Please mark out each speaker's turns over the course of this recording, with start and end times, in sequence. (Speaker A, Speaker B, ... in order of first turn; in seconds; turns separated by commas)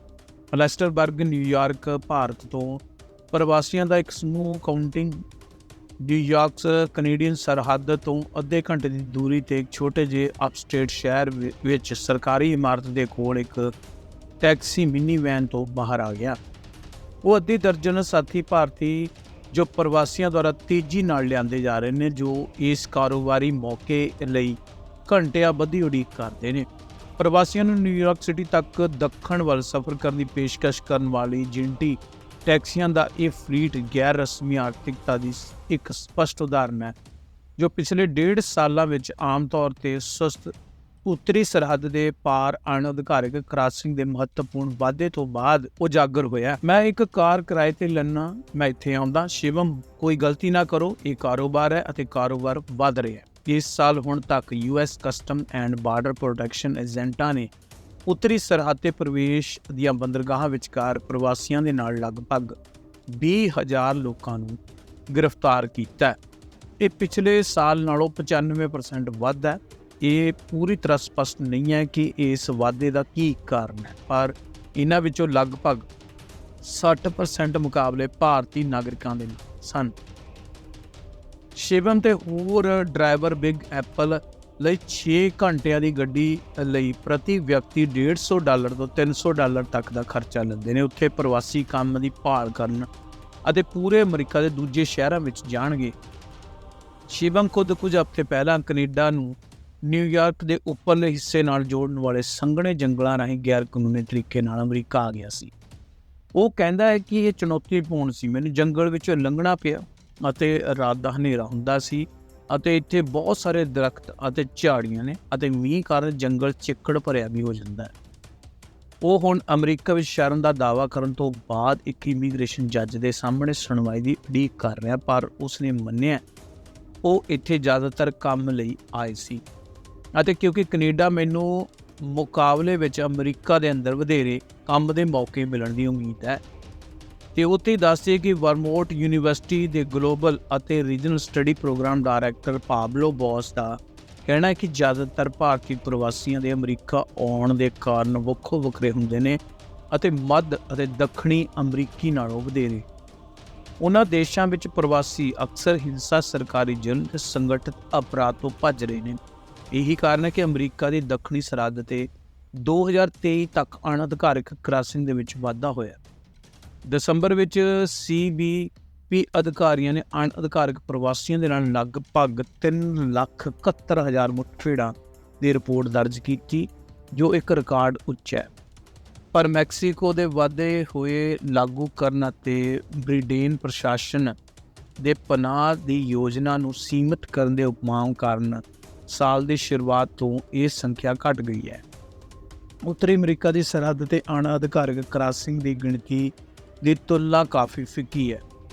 Speaker A: 0.5-5.2, Speaker A: 6.0-13.7, Speaker A: 14.4-16.4, Speaker A: 17.2-26.7, Speaker A: 27.2-36.9, Speaker A: 37.6-40.5, Speaker A: 41.0-57.5, Speaker A: 58.0-62.5, Speaker A: 63.1-64.6, Speaker A: 65.1-66.2, Speaker A: 66.8-75.8, Speaker A: 76.6-79.9, Speaker A: 81.5-92.9, Speaker A: 93.4-96.0, Speaker A: 97.1-105.5, Speaker A: 106.3-117.9, Speaker A: 119.0-126.2, Speaker A: 127.0-129.4, Speaker A: 130.2-136.4, Speaker A: 137.3-149.4, Speaker A: 149.9-152.8, Speaker A: 153.8-159.2, Speaker A: 159.7-166.0, Speaker A: 166.8-178.5, Speaker A: 179.3-184.3, Speaker A: 185.0-191.8, Speaker A: 192.8-198.4